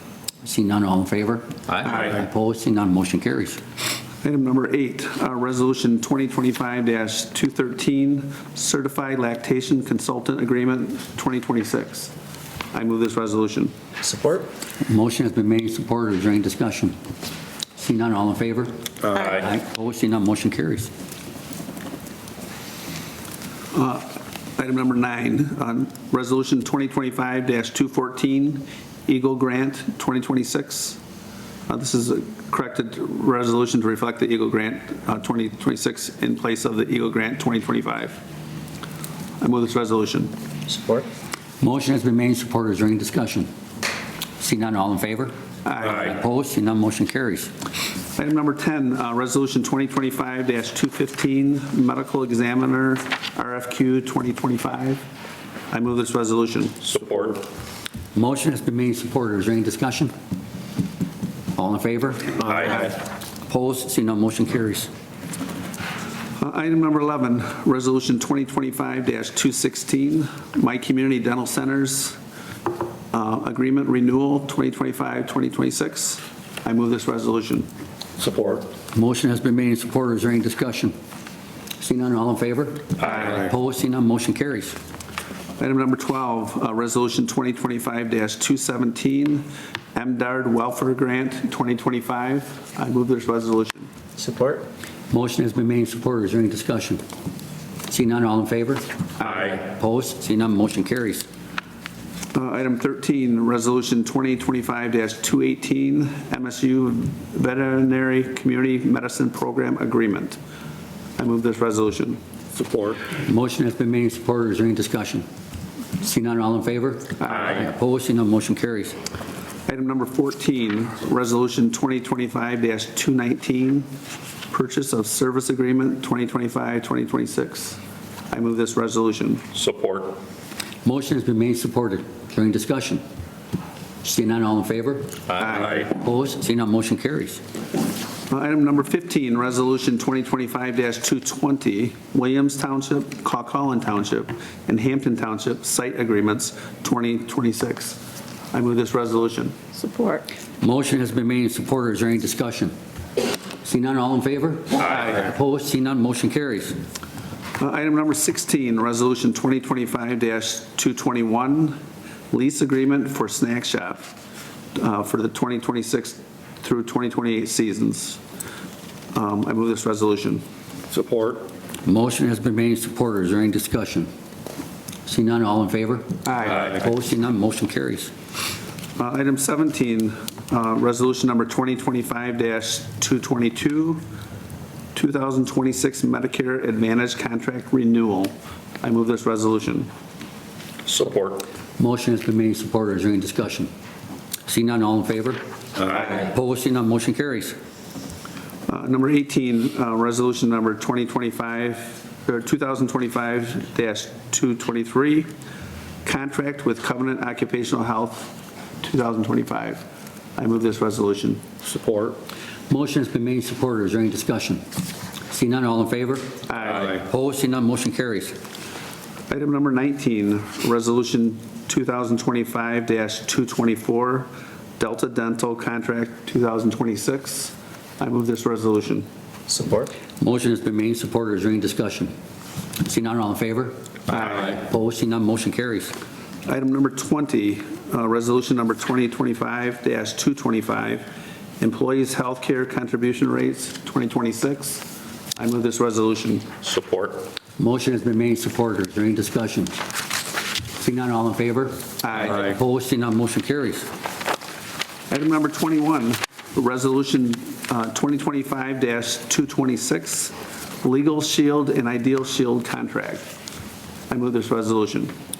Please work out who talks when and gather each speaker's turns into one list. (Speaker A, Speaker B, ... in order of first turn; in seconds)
Speaker A: 0.4-3.6, 14.8-17.0, 17.8-20.9, 41.6-43.5, 44.4-47.5, 58.1-60.1, 61.6-63.0, 63.5-64.9, 78.9-81.0, 81.8-84.8, 95.1-97.0, 97.9-101.3, 113.1-115.3, 116.0-119.0, 130.8-133.0, 134.0-137.4, 150.6-152.8, 153.6-156.8, 171.8-174.1, 175.1-178.1, 191.8-193.7, 194.5-197.6, 212.7-214.6, 215.3-218.4, 230.2-232.1, 232.8-235.9, 247.6-249.8, 250.8-253.9
Speaker B: 4.2-12.1, 12.7-13.7, 23.7-31.0, 31.7-38.2, 39.4-40.3, 45.6-46.1, 48.2-55.0, 55.7-56.9, 66.4-72.2, 73.1-77.7, 85.6-93.9, 102.3-110.4, 111.2-112.2, 117.2-117.6, 119.7-123.9, 124.5-127.8, 128.3-129.4, 135.4-135.8, 138.3-148.0, 148.5-149.6, 154.8-155.2, 157.6-161.8, 162.3-164.1, 164.8-168.2, 169.1-170.4, 176.2-176.8, 179.0-184.0, 184.9-189.9, 198.7-205.3, 206.1-209.8, 210.4-211.4, 216.5-217.0, 219.3-229.1, 234.1-234.6, 236.5-246.5, 252.0-252.5, 255.1-263.3, 264.1-265.1
Speaker C: 14.0-14.5, 40.7-41.0, 94.2-94.7, 149.8-150.2, 229.5-229.9
Speaker D: 19.1-19.5, 56.8-57.4, 62.4-62.8, 78.2-78.7, 112.5-113.0, 129.5-130.2, 135.3-135.9, 170.9-171.5, 176.5-176.8, 190.9-191.5, 211.6-212.2, 246.6-247.3